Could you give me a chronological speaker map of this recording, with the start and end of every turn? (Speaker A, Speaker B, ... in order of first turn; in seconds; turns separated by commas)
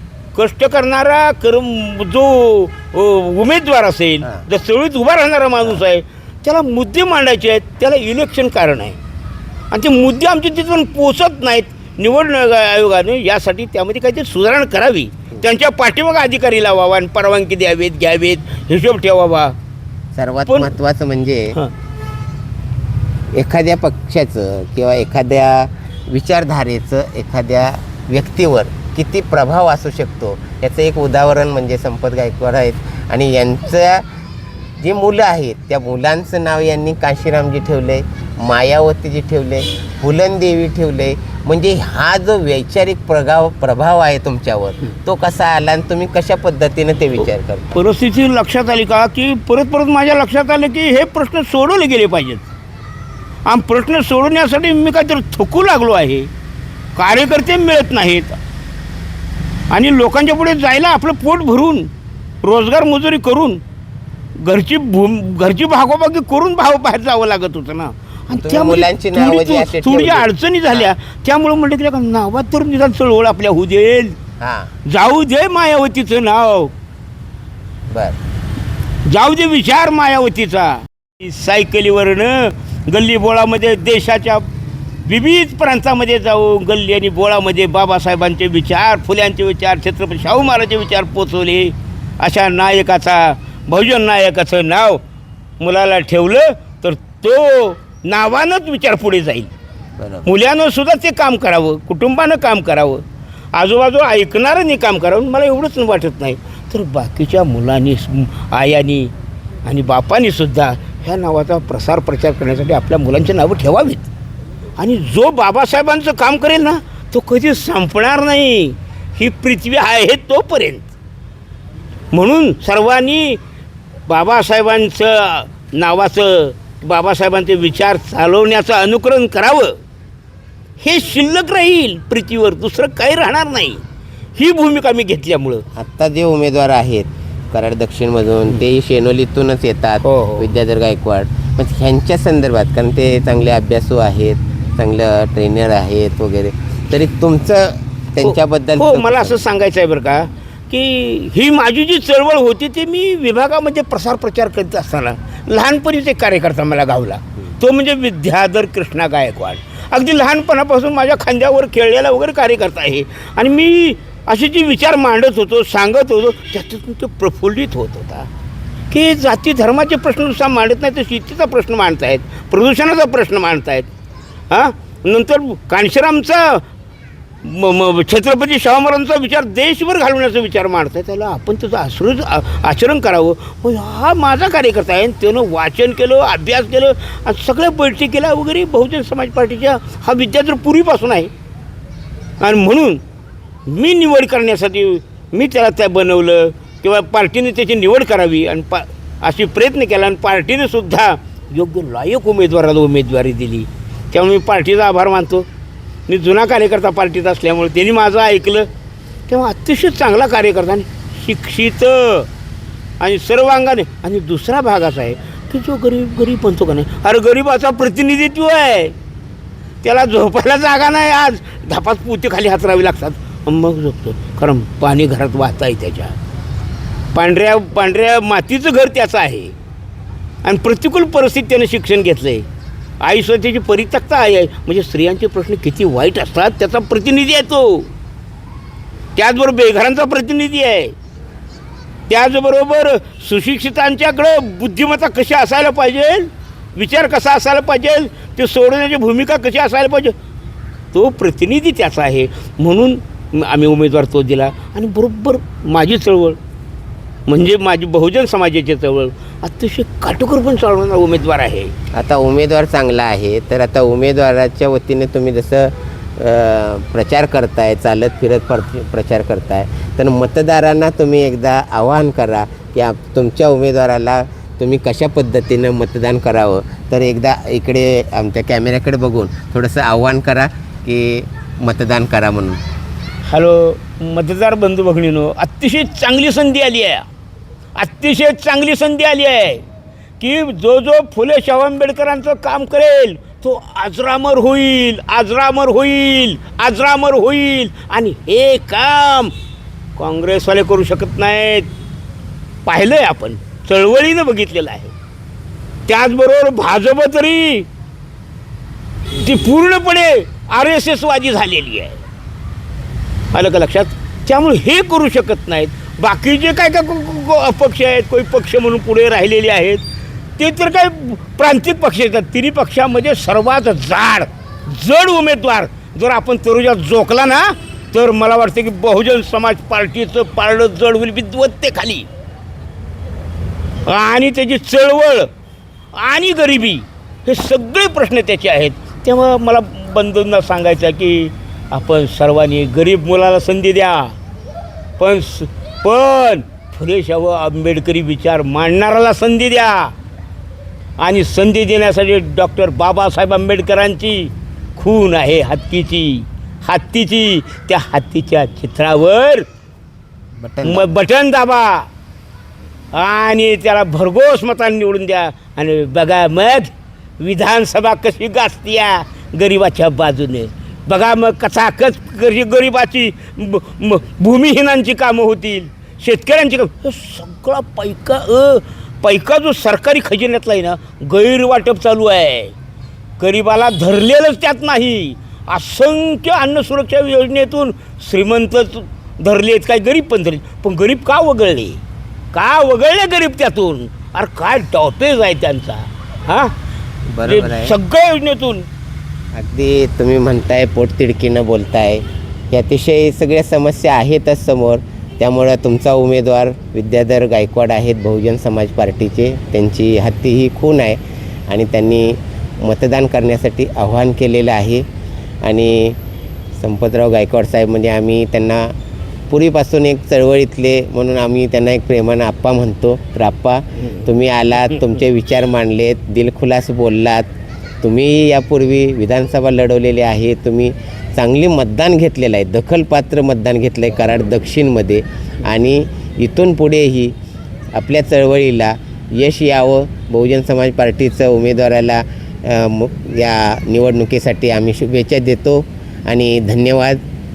Speaker A: 0.3-9.0, Speaker A: 9.7-19.5, Speaker B: 20.1-21.6, Speaker A: 20.5-20.7, Speaker B: 23.3-34.0, Speaker B: 34.8-47.7, Speaker A: 47.7-52.5, Speaker A: 53.5-56.3, Speaker A: 56.9-58.4, Speaker A: 59.7-61.9, Speaker A: 62.4-63.6, Speaker A: 64.4-74.2, Speaker B: 68.3-70.9, Speaker B: 74.4-74.7, Speaker A: 74.8-76.7, Speaker B: 77.9-78.2, Speaker A: 79.0-84.4, Speaker A: 85.0-95.0, Speaker A: 95.6-99.5, Speaker B: 100.0-100.3, Speaker A: 100.2-103.0, Speaker A: 103.5-109.1, Speaker A: 109.6-114.1, Speaker A: 114.8-120.9, Speaker A: 122.1-123.4, Speaker A: 124.1-129.8, Speaker A: 130.8-133.8, Speaker A: 134.3-135.6, Speaker B: 135.7-149.4, Speaker A: 140.0-140.5, Speaker A: 148.2-168.3, Speaker A: 168.9-173.9, Speaker A: 174.5-176.6, Speaker A: 177.4-191.3, Speaker A: 192.4-193.0, Speaker A: 193.7-205.5, Speaker A: 206.1-208.7, Speaker A: 209.3-212.3, Speaker A: 213.0-218.9, Speaker A: 219.8-226.2, Speaker A: 227.1-229.5, Speaker A: 230.4-232.4, Speaker A: 233.0-237.9, Speaker A: 239.2-240.9, Speaker A: 242.1-250.1, Speaker A: 250.9-256.4, Speaker A: 257.3-261.7, Speaker B: 261.9-282.6, Speaker A: 283.3-287.1, Speaker A: 287.8-289.6, Speaker A: 290.2-299.3, Speaker A: 300.0-301.7, Speaker A: 302.6-304.9, Speaker A: 305.9-307.7, Speaker A: 309.1-312.0, Speaker A: 313.3-319.8, Speaker A: 320.4-332.1, Speaker A: 333.9-335.3, Speaker A: 335.9-344.1, Speaker A: 345.0-349.9, Speaker A: 351.0-359.4, Speaker B: 360.4-360.9, Speaker A: 360.6-361.9, Speaker A: 362.9-382.5, Speaker A: 383.2-391.8, Speaker A: 392.3-396.5, Speaker B: 397.1-397.7, Speaker A: 397.2-398.6, Speaker B: 399.3-414.8, Speaker B: 415.4-416.0, Speaker B: 416.6-418.7, Speaker B: 419.3-427.3, Speaker B: 427.8-437.1, Speaker B: 437.7-447.0